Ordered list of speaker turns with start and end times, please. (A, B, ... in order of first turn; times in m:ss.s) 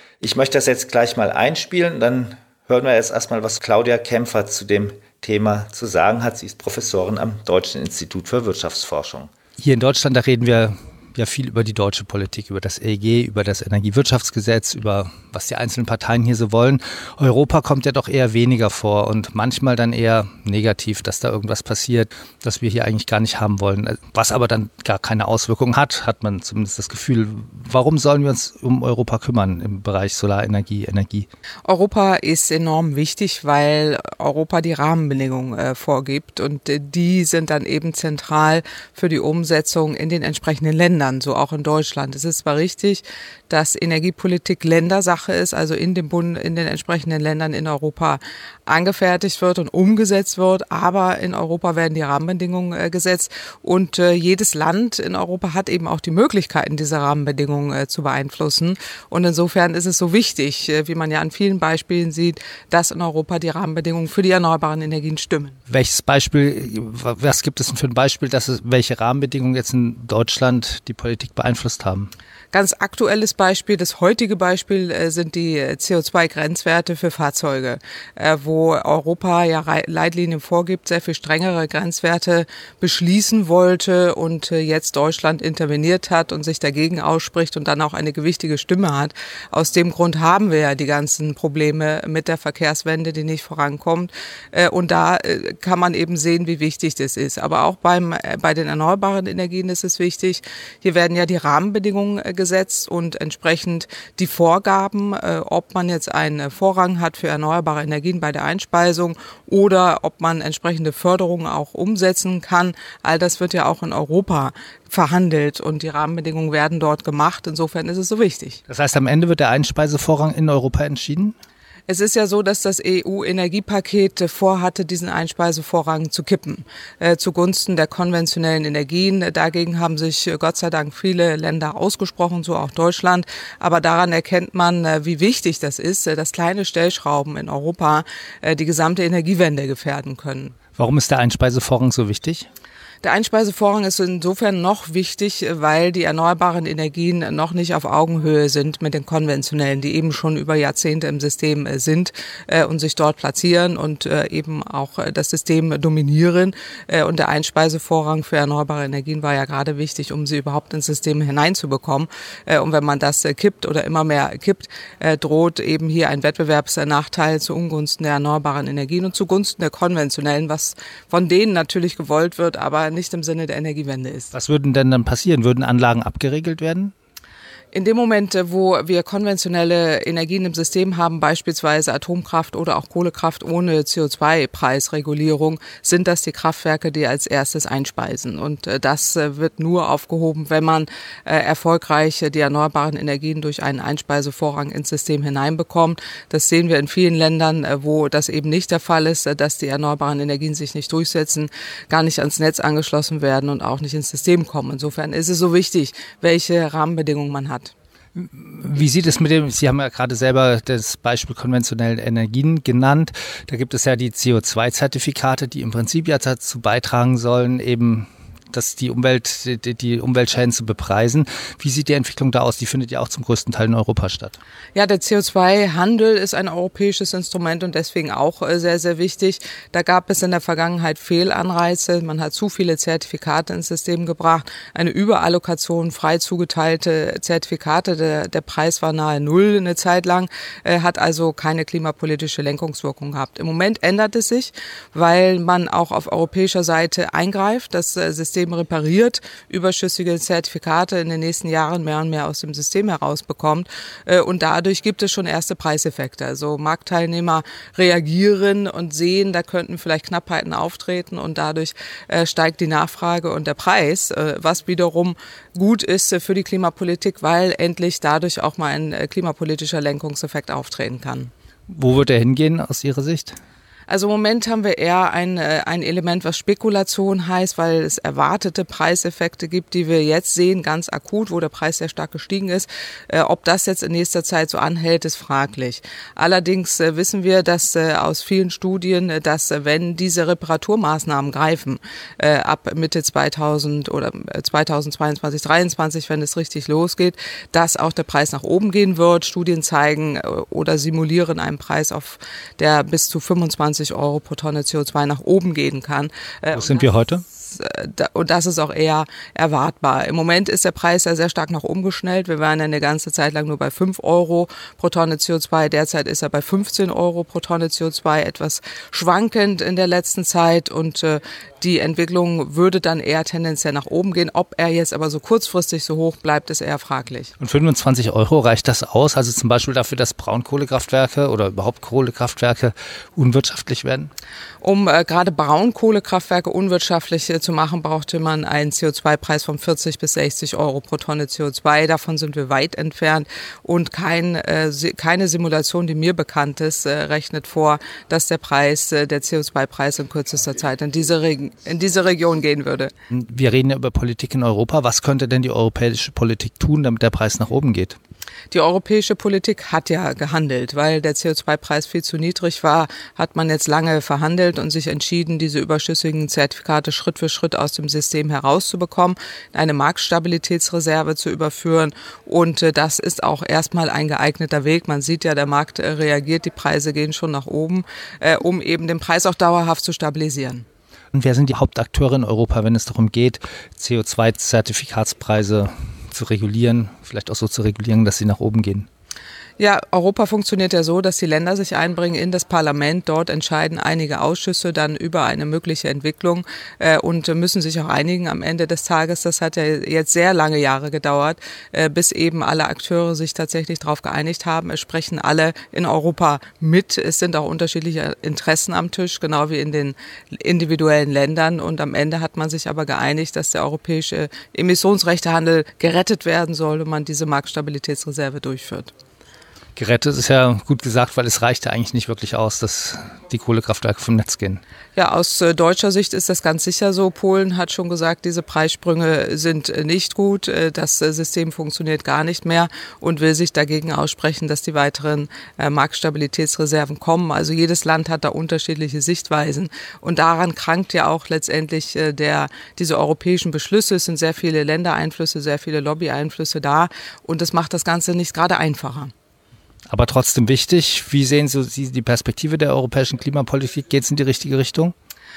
0:00.2-0:09.3 A
0:09.6-0:31.3 B
0:31.7-1:05.6 C
1:05.7-1:12.1 B
1:12.5-1:58.6 C
1:58.7-2:01.4 B
2:01.9-2:20.6 C
2:20.8-2:22.5 B
2:23.0-2:54.3 C
2:54.3-2:56.9 B
2:57.7-3:27.7 C
3:28.2-3:44.4 B
3:44.8-4:31.3 C
4:31.7-4:33.4 B
4:33.9-5:27.3 C
5:06.5-5:07.2 B
5:27.4-5:34.1 B
5:34.6-5:52.9 C
5:53.1-5:58.0 B
5:58.5-6:20.6 C
6:21.1-6:28.9 B
6:29.6-6:58.9 C
6:59.8-7:04.6 B
7:05.0-7:29.1 C
7:29.9-7:34.9 B